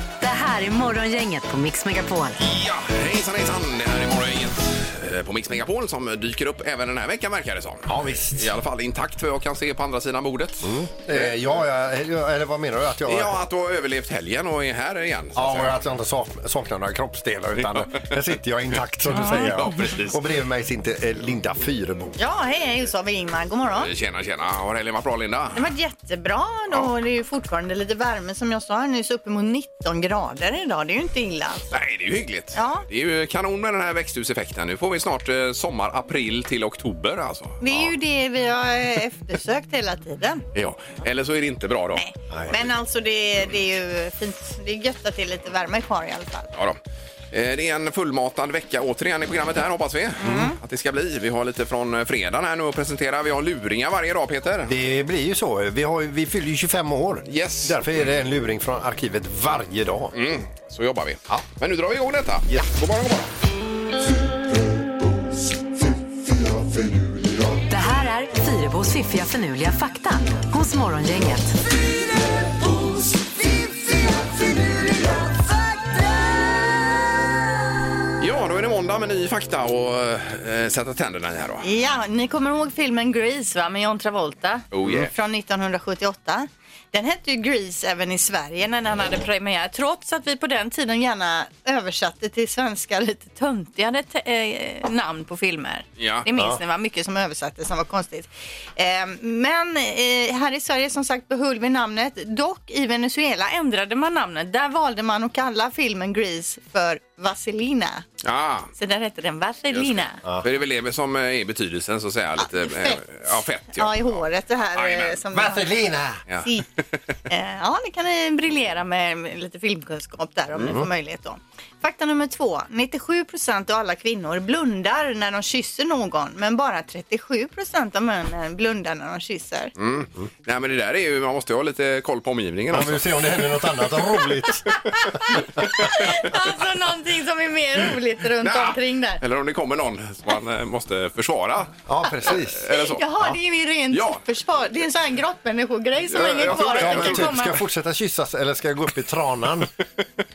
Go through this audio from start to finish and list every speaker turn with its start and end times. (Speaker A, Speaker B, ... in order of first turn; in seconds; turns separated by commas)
Speaker A: 0.2-2.4, Speaker B: 2.4-11.3, Speaker C: 7.9-8.5, Speaker C: 10.6-13.4, Speaker B: 13.1-15.8, Speaker C: 15.3-22.2, Speaker B: 17.7-18.0, Speaker B: 19.1-20.2, Speaker D: 19.2-19.7, Speaker D: 22.2-23.9, Speaker B: 23.8-25.7, Speaker D: 25.6-31.7, Speaker B: 31.7-37.9, Speaker D: 32.5-32.8, Speaker D: 37.6-40.5, Speaker B: 40.5-42.6, Speaker D: 42.0-46.5, Speaker C: 42.3-42.6, Speaker B: 47.3-54.7, Speaker D: 50.2-50.6, Speaker C: 50.2-50.5, Speaker C: 54.6-60.2, Speaker B: 57.3-57.9, Speaker B: 60.1-63.3, Speaker A: 67.7-71.6, Speaker B: 78.2-81.7, Speaker D: 81.6-108.0, Speaker B: 84.7-85.1, Speaker B: 96.0-96.3, Speaker B: 108.2-108.7, Speaker D: 108.8-110.2, Speaker B: 109.7-114.2, Speaker D: 112.4-115.7, Speaker B: 114.8-115.2, Speaker C: 115.3-116.2, Speaker D: 116.4-116.7, Speaker D: 117.3-129.7, Speaker B: 129.8-133.3, Speaker C: 132.7-134.8, Speaker D: 134.9-139.2, Speaker B: 138.4-141.7, Speaker C: 141.9-142.7, Speaker B: 142.3-143.0, Speaker D: 142.7-147.6, Speaker B: 143.9-144.2, Speaker B: 146.1-147.5, Speaker C: 146.4-149.7